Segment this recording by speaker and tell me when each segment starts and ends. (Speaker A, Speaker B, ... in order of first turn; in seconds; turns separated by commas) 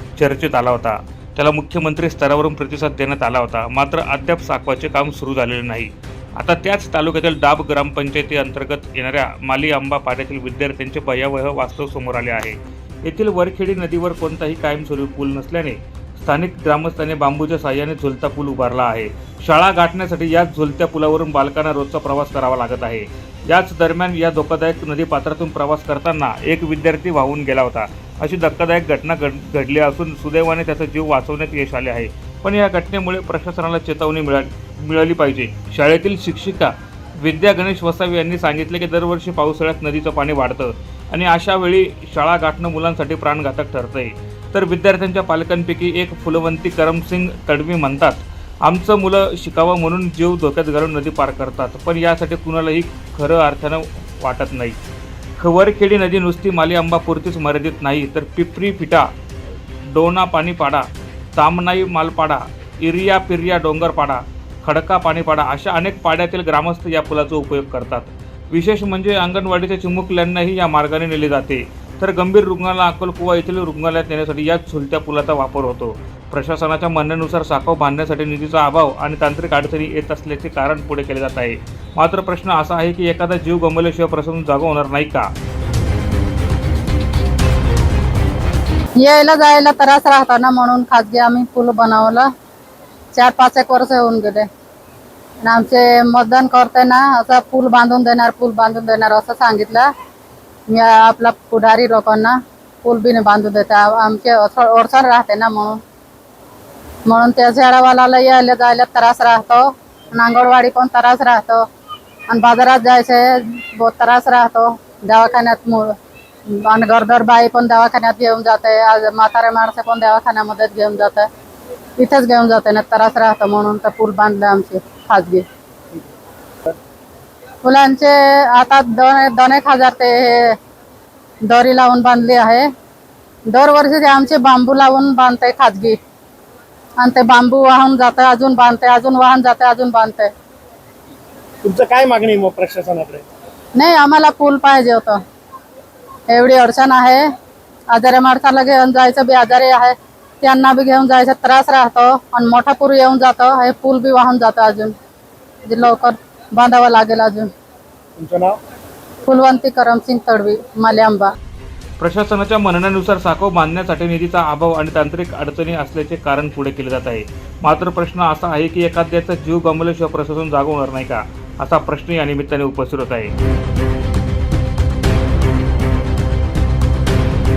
Speaker A: 0.2-54.8, Speaker A: 55.4-59.1, Speaker A: 59.9-85.3, Speaker B: 89.0-92.3, Speaker B: 93.1-94.5, Speaker B: 95.4-99.9, Speaker B: 100.7-105.8, Speaker B: 107.0-111.6, Speaker B: 112.3-115.9, Speaker B: 116.5-121.3, Speaker B: 122.0-125.5, Speaker B: 127.6-130.6, Speaker B: 131.4-132.7, Speaker B: 133.5-136.0, Speaker B: 137.0-140.3, Speaker C: 141.6-143.2, Speaker B: 143.8-145.2, Speaker B: 146.3-147.3, Speaker B: 147.9-154.9, Speaker B: 155.6-157.5, Speaker C: 158.2-158.6, Speaker B: 159.2-161.3, Speaker A: 162.0-173.3